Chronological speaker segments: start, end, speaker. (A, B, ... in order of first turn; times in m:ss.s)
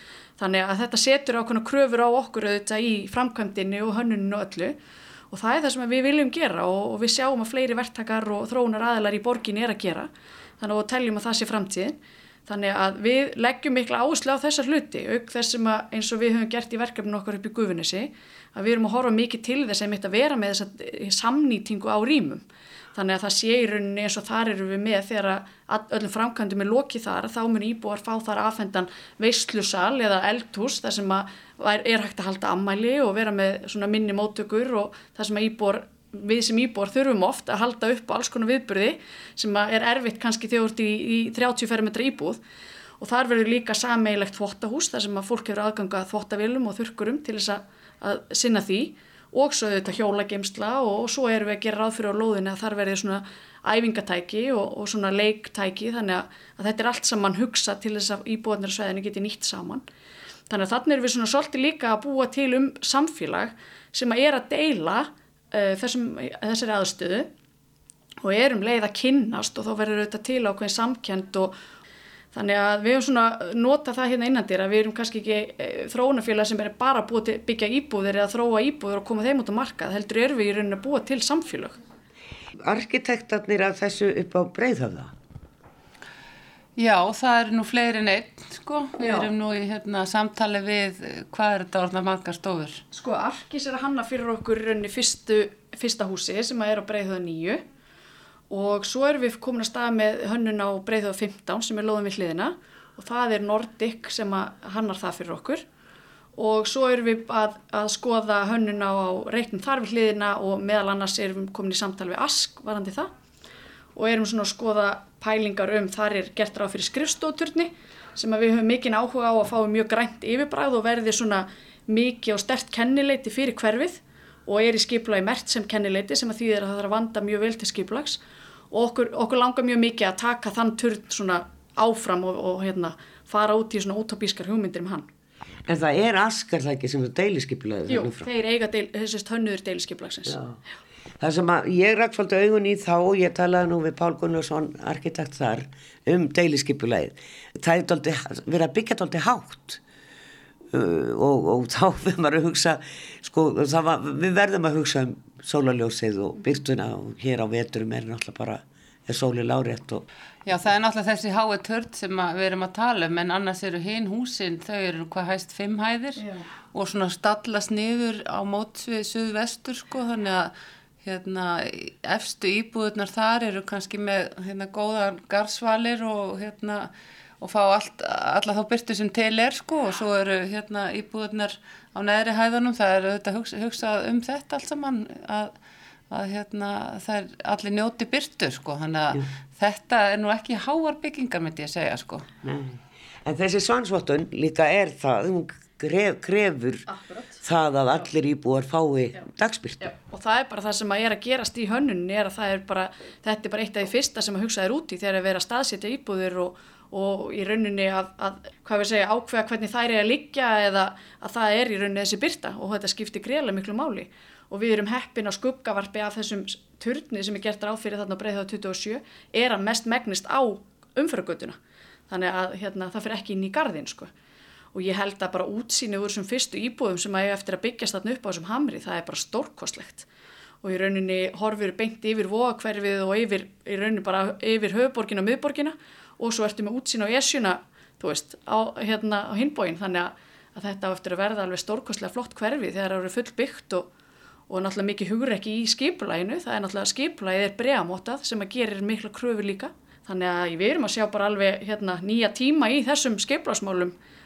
0:00.4-0:04.8 A
0:05.3-0:22.4 A
0:23.0-0:42.4 A
0:43.0-0:59.8 A
1:00.5-1:07.3 A
1:08.2-1:11.6 A
1:12.3-1:21.8 A
1:22.6-1:25.1 B
1:26.8-1:32.8 C
1:29.0-1:29.3 A
1:32.9-1:37.6 A
1:38.5-1:45.6 A
1:46.4-1:53.1 A
1:54.0-2:08.2 A
2:08.7-2:15.1 A
2:15.7-2:18.3 B
2:17.9-2:20.4 A
2:20.3-2:20.6 B
2:21.2-2:29.8 B
2:30.7-2:40.0 B
2:40.4-2:50.5 C
2:51.0-3:05.5 C
3:06.1-3:12.3 C
3:12.4-3:16.9 B
3:16.9-3:17.4 A
3:17.4-3:19.8 B
3:19.8-3:41.6 A
3:42.1-3:44.1 A
3:44.7-3:50.0 A
3:50.6-4:03.9 A
4:04.5-4:14.0 A